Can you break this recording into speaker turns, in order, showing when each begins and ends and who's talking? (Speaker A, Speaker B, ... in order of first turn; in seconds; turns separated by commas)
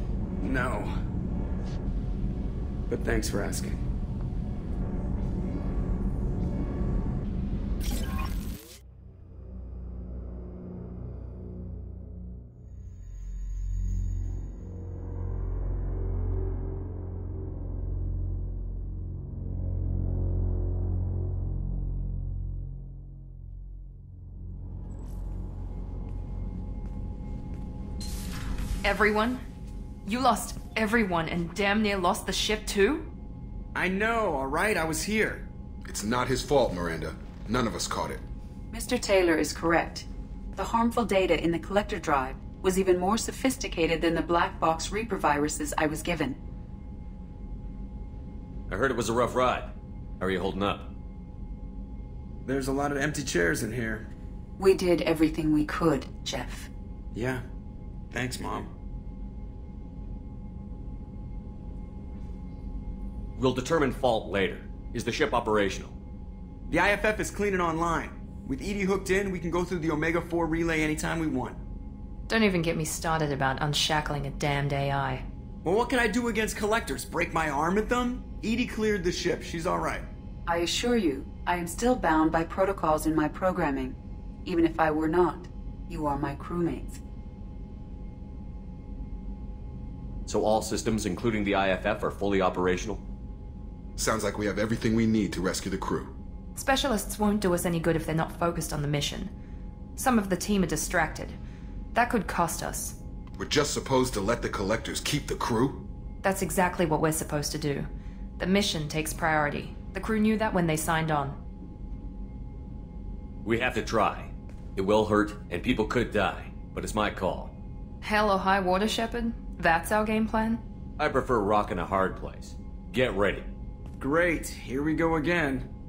Speaker A: 0.4-0.9, Speaker A: 2.9-3.8, Speaker B: 28.8-29.4, Speaker B: 30.1-33.1, Speaker A: 33.8-35.5, Speaker C: 35.9-38.2, Speaker D: 38.7-46.4, Speaker E: 48.7-50.9, Speaker A: 52.5-54.1, Speaker D: 54.6-56.7, Speaker A: 57.1-57.4, Speaker A: 58.1-58.7, Speaker E: 63.4-66.0, Speaker A: 66.7-71.6, Speaker B: 72.3-75.2, Speaker A: 75.6-80.1, Speaker D: 80.5-87.0, Speaker E: 90.3-93.0, Speaker C: 94.0-96.1, Speaker B: 96.6-99.3, Speaker B: 100.0-101.4, Speaker B: 101.9-103.0, Speaker C: 103.4-105.8, Speaker B: 106.2-107.9, Speaker B: 108.4-111.4, Speaker E: 113.5-117.5, Speaker B: 118.0-120.6, Speaker E: 121.0-123.5, Speaker A: 124.0-125.7